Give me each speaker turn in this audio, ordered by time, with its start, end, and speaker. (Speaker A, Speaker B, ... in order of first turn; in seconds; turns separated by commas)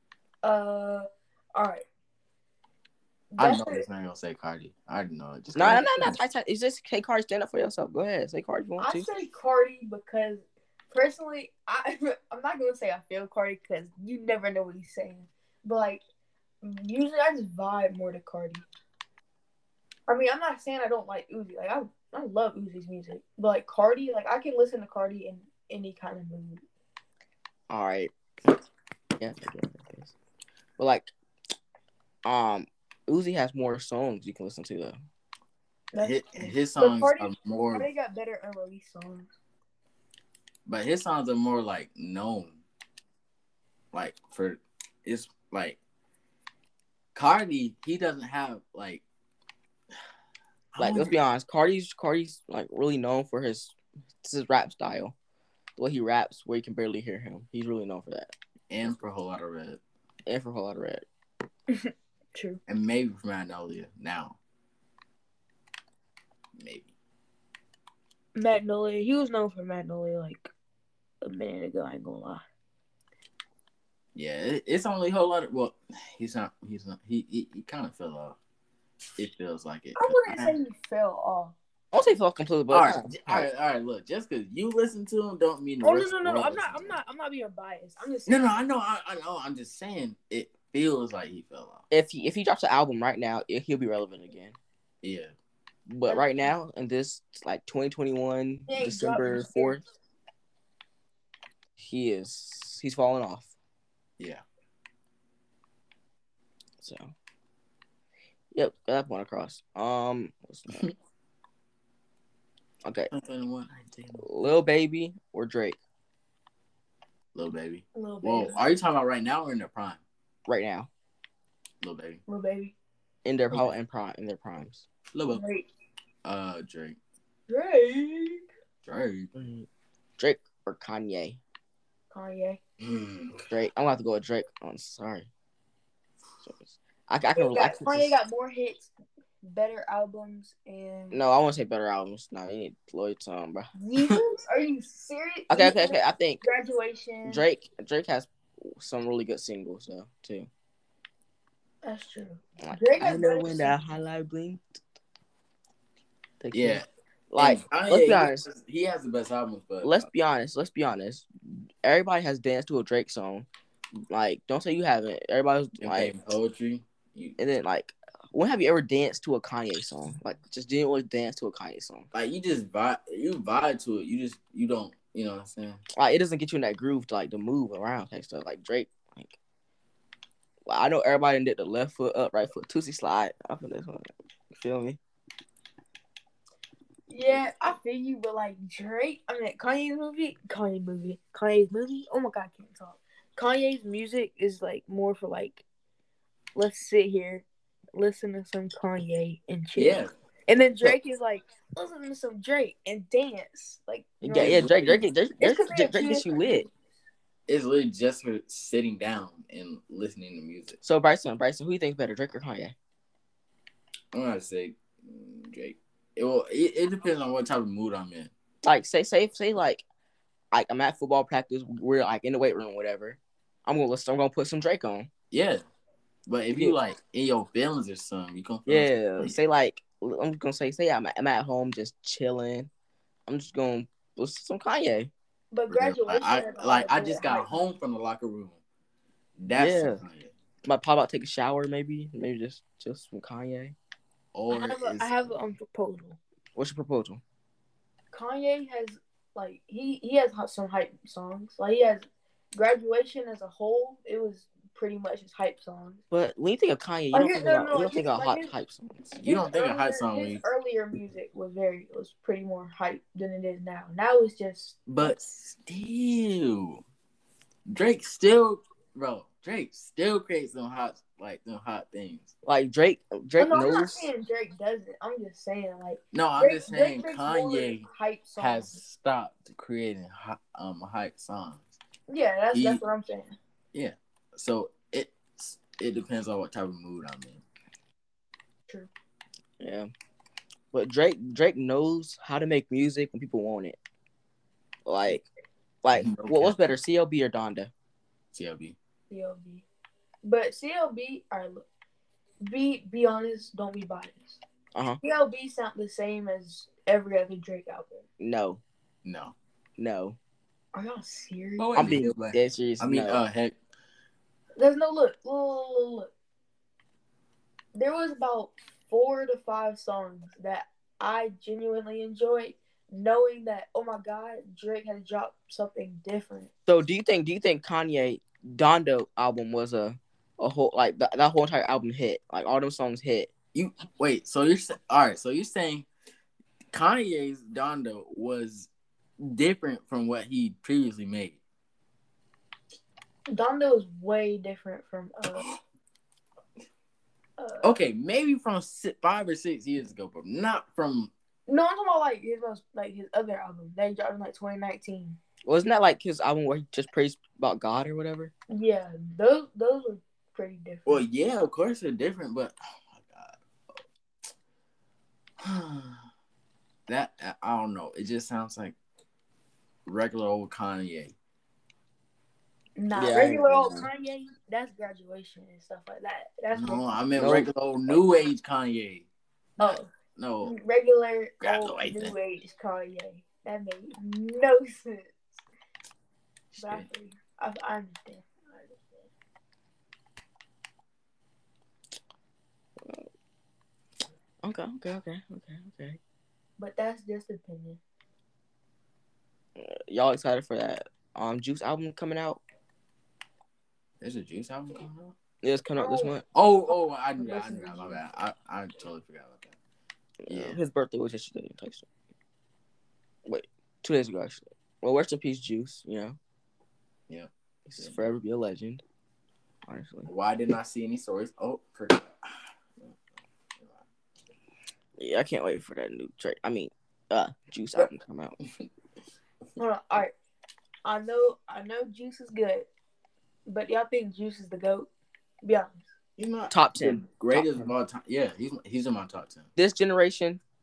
Speaker A: 0.4-1.8, Speaker A: 3.3-3.8, Speaker B: 3.4-6.2, Speaker C: 5.5-9.1, Speaker A: 8.8-16.0, Speaker A: 16.6-18.6, Speaker A: 20.1-26.6, Speaker C: 27.7-28.1, Speaker C: 29.2-30.1, Speaker C: 30.8-31.1, Speaker C: 32.2-35.0, Speaker A: 35.9-39.3, Speaker B: 36.0-37.9, Speaker B: 40.6-42.6, Speaker B: 43.9-45.8, Speaker B: 47.1-49.0, Speaker B: 50.8-51.1, Speaker C: 50.8-55.1, Speaker C: 55.8-58.3, Speaker B: 58.7-59.8, Speaker C: 60.2-61.0, Speaker A: 61.7-62.6, Speaker B: 62.7-64.4, Speaker B: 66.5-66.9, Speaker A: 68.3-70.5, Speaker A: 71.2-72.4, Speaker B: 74.1-78.4, Speaker B: 79.2-80.5, Speaker A: 80.0-81.5, Speaker C: 81.9-83.5, Speaker B: 82.7-87.0, Speaker A: 85.8-88.6, Speaker B: 88.2-91.8, Speaker C: 91.9-94.5, Speaker B: 95.0-95.3, Speaker C: 95.9-99.8, Speaker A: 96.1-96.3, Speaker A: 98.7-99.8, Speaker C: 101.8-103.5, Speaker C: 106.8-107.1, Speaker C: 108.5-110.9, Speaker C: 112.8-113.1, Speaker B: 113.1-114.2, Speaker C: 114.2-115.8, Speaker B: 117.3-120.0, Speaker A: 117.9-118.6, Speaker C: 120.4-120.9, Speaker B: 121.8-122.2, Speaker A: 122.3-122.7, Speaker C: 123.2-124.8, Speaker B: 125.1-125.4, Speaker A: 125.3-125.7, Speaker B: 126.2-127.0, Speaker A: 127.5-128.4, Speaker B: 128.8-129.3, Speaker C: 129.3-129.7, Speaker C: 130.2-131.4, Speaker A: 132.1-132.6, Speaker B: 132.8-133.5, Speaker C: 133.5-135.3, Speaker C: 136.4-138.1, Speaker A: 137.3-138.9, Speaker A: 139.4-141.2, Speaker C: 141.1-143.7, Speaker A: 143.8-147.4, Speaker C: 145.5-146.4, Speaker C: 147.2-150.5, Speaker A: 151.8-153.8, Speaker C: 152.6-154.6, Speaker C: 156.4-158.4, Speaker B: 156.5-156.8, Speaker B: 157.4-160.0, Speaker C: 159.8-161.3, Speaker C: 161.8-163.5, Speaker C: 164.1-166.1, Speaker B: 165.8-167.4, Speaker C: 167.4-172.1, Speaker B: 172.1-175.8, Speaker C: 175.9-179.4, Speaker C: 180.7-185.0, Speaker A: 187.1-195.6, Speaker A: 196.5-206.7, Speaker B: 199.8-200.1, Speaker C: 204.2-206.7, Speaker B: 204.3-205.0, Speaker B: 207.5-210.8, Speaker C: 210.8-212.7, Speaker B: 214.1-218.3, Speaker C: 218.6-219.8, Speaker C: 220.5-225.1, Speaker B: 225.3-225.6, Speaker B: 226.3-229.4, Speaker C: 226.5-226.8, Speaker C: 228.7-232.7, Speaker C: 233.3-235.1, Speaker A: 235.5-237.5, Speaker B: 235.7-238.6, Speaker B: 239.4-240.3, Speaker C: 239.5-240.0, Speaker C: 240.6-243.7, Speaker B: 244.3-245.3, Speaker A: 244.5-246.2, Speaker C: 246.6-247.2, Speaker A: 248.1-256.0, Speaker C: 256.1-259.1, Speaker A: 257.1-258.5, Speaker B: 259.1-260.4, Speaker A: 259.2-265.2, Speaker B: 264.9-266.8, Speaker B: 267.6-272.3, Speaker C: 272.4-274.1, Speaker A: 273.4-278.8, Speaker B: 276.1-281.7, Speaker A: 282.1-283.4, Speaker B: 282.5-282.8, Speaker B: 283.7-287.4, Speaker C: 289.6-289.9, Speaker C: 290.7-293.8, Speaker C: 294.9-295.2, Speaker C: 295.8-297.7, Speaker B: 295.9-296.6, Speaker B: 298.3-298.8, Speaker A: 299.1-299.6, Speaker A: 300.2-301.6, Speaker A: 302.4-304.4, Speaker C: 304.7-305.0, Speaker A: 305.0-308.0, Speaker C: 308.2-308.6, Speaker B: 309.0-309.3, Speaker C: 309.8-310.2, Speaker A: 310.7-311.7, Speaker B: 311.6-313.6, Speaker C: 311.8-313.2, Speaker A: 314.6-316.1, Speaker A: 317.7-326.5, Speaker C: 326.7-333.3, Speaker B: 333.5-335.9, Speaker B: 336.7-341.4, Speaker A: 343.3-345.4, Speaker B: 345.3-345.6, Speaker A: 347.4-347.8, Speaker B: 347.6-351.1, Speaker A: 351.5-355.2, Speaker C: 355.4-358.3, Speaker A: 358.5-361.0, Speaker B: 360.9-363.4, Speaker B: 365.4-366.0, Speaker B: 366.9-368.8, Speaker B: 369.9-371.1, Speaker A: 372.8-376.9, Speaker C: 372.9-373.9, Speaker B: 376.5-379.1, Speaker C: 377.2-377.5, Speaker A: 379.6-379.9, Speaker B: 379.6-380.5, Speaker A: 380.4-385.4, Speaker B: 381.4-382.1, Speaker B: 386.5-386.9, Speaker A: 386.6-389.1, Speaker C: 394.4-396.0, Speaker A: 396.6-397.8, Speaker C: 399.6-402.4, Speaker B: 404.0-405.1, Speaker C: 405.4-406.2, Speaker A: 405.8-406.1, Speaker B: 406.3-409.5, Speaker A: 407.2-408.0, Speaker C: 410.2-411.9, Speaker B: 410.3-410.6, Speaker C: 413.2-416.2, Speaker B: 417.1-418.1, Speaker C: 417.6-418.8, Speaker C: 419.6-420.1, Speaker B: 420.1-422.9, Speaker C: 425.0-428.4, Speaker A: 429.6-430.1, Speaker A: 430.8-432.7, Speaker A: 433.5-434.9, Speaker A: 435.4-435.8, Speaker B: 436.2-439.5, Speaker C: 436.5-437.7, Speaker C: 439.6-440.4